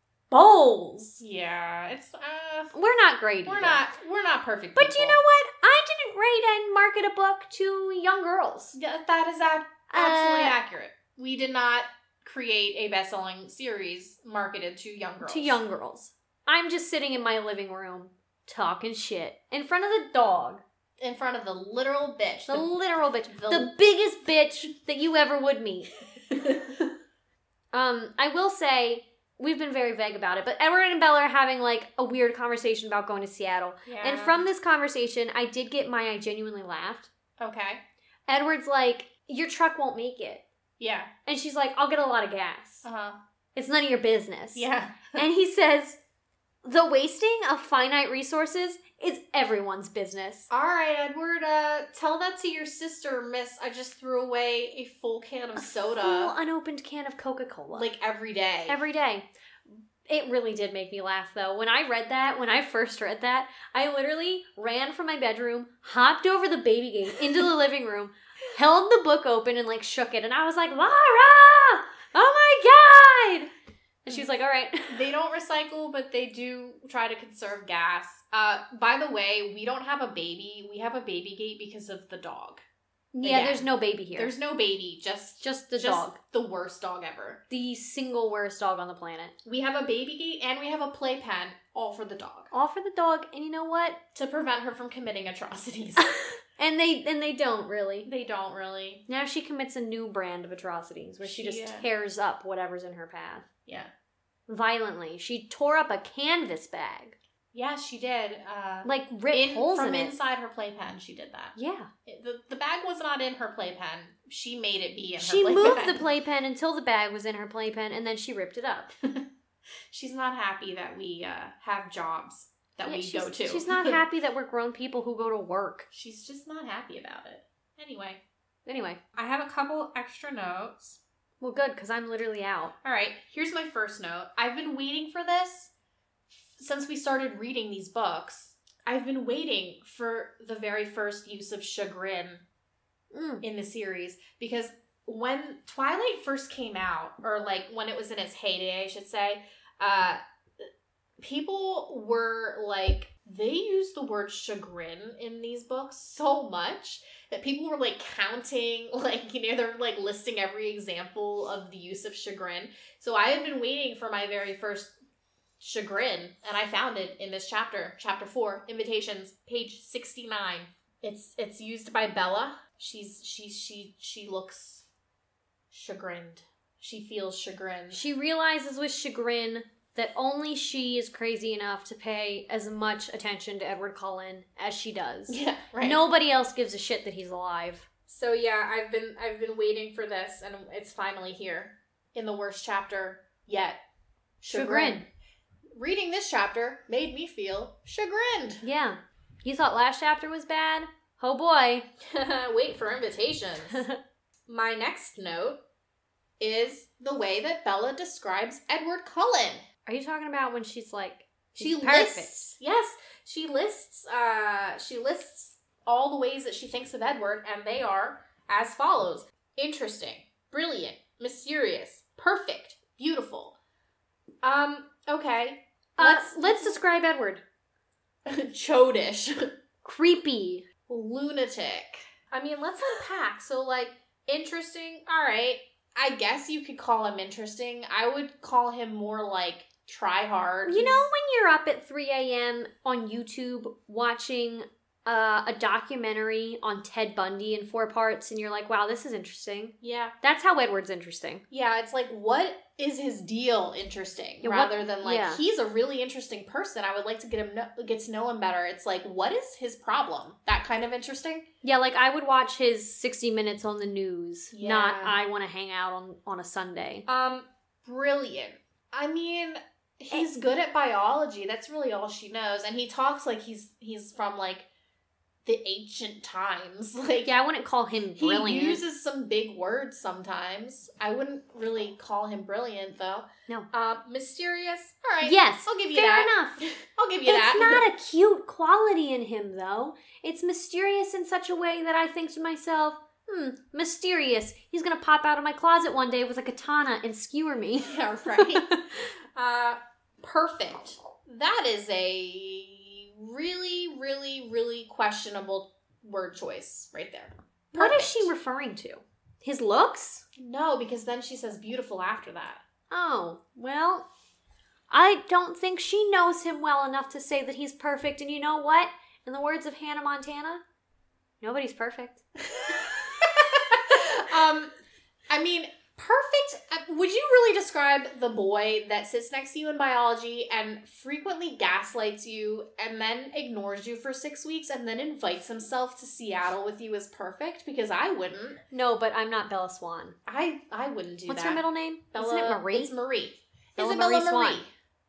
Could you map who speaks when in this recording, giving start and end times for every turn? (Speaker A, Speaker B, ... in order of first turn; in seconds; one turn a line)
Speaker A: 0.3-1.2
Speaker B: 1.2-2.7
Speaker A: 2.7-3.8
Speaker B: 3.4-5.2
Speaker A: 4.7-8.8
Speaker B: 8.7-15.6
Speaker A: 9.9-10.6
Speaker A: 15.2-20.6
Speaker B: 21.0-22.7
Speaker A: 22.5-25.9
Speaker B: 23.3-23.7
Speaker B: 26.3-26.8
Speaker A: 27.7-37.1
Speaker B: 33.9-34.4
Speaker B: 37.4-37.8
Speaker A: 38.3-40.4
Speaker B: 40.8-41.1
Speaker A: 41.2-42.9
Speaker B: 42.8-43.2
Speaker A: 43.5-46.0
Speaker B: 44.5-45.2
Speaker A: 46.6-50.5
Speaker B: 50.5-56.3
Speaker A: 55.6-57.9
Speaker B: 57.7-58.8
Speaker A: 58.7-73.5
Speaker A: 74.0-75.0
Speaker B: 74.9-82.6
Speaker A: 83.1-84.3
Speaker B: 83.2-87.4
Speaker A: 85.4-86.2
Speaker A: 87.5-89.3
Speaker B: 89.4-92.5
Speaker A: 92.5-94.0
Speaker B: 94.1-96.1
Speaker A: 96.0-98.1
Speaker B: 98.0-99.0
Speaker A: 99.1-103.5
Speaker B: 101.2-101.9
Speaker B: 103.7-103.9
Speaker A: 104.5-107.2
Speaker B: 107.5-111.5
Speaker A: 108.8-110.1
Speaker A: 111.5-111.9
Speaker B: 112.0-116.0
Speaker A: 115.2-118.9
Speaker B: 119.9-124.0
Speaker A: 122.8-125.9
Speaker B: 125.9-128.2
Speaker A: 128.7-129.0
Speaker B: 129.1-131.0
Speaker A: 131.4-132.7
Speaker B: 132.8-135.7
Speaker B: 136.3-142.4
Speaker A: 143.1-143.4
Speaker B: 143.4-150.7
Speaker B: 151.2-164.9
Speaker B: 165.6-174.8
Speaker B: 175.7-178.0
Speaker A: 177.9-187.9
Speaker B: 185.3-186.0
Speaker B: 188.1-193.8
Speaker B: 194.4-195.1
Speaker A: 194.5-195.0
Speaker B: 195.7-198.6
Speaker A: 198.6-201.9
Speaker B: 202.0-203.8
Speaker A: 203.7-204.0
Speaker B: 204.5-205.6
Speaker B: 206.4-209.6
Speaker A: 209.8-212.5
Speaker B: 211.6-223.6
Speaker B: 224.4-226.8
Speaker A: 226.0-227.4
Speaker B: 228.2-229.4
Speaker A: 229.8-230.7
Speaker B: 230.9-241.1
Speaker A: 240.7-251.4
Speaker B: 249.8-250.1
Speaker B: 251.5-261.4
Speaker A: 254.4-255.4
Speaker A: 261.6-267.1
Speaker B: 264.5-265.2
Speaker B: 267.1-274.7
Speaker B: 275.4-277.3
Speaker A: 277.2-278.8
Speaker B: 278.1-287.9
Speaker A: 285.2-286.6
Speaker A: 287.2-299.0
Speaker B: 297.8-298.7
Speaker B: 299.3-308.3
Speaker A: 307.7-310.2
Speaker B: 310.4-312.6
Speaker A: 312.9-314.1
Speaker A: 314.9-320.6
Speaker A: 321.4-322.2
Speaker B: 322.5-324.7
Speaker B: 325.3-338.6
Speaker A: 338.7-340.1
Speaker B: 340.2-344.7
Speaker A: 341.3-342.9
Speaker A: 343.8-344.6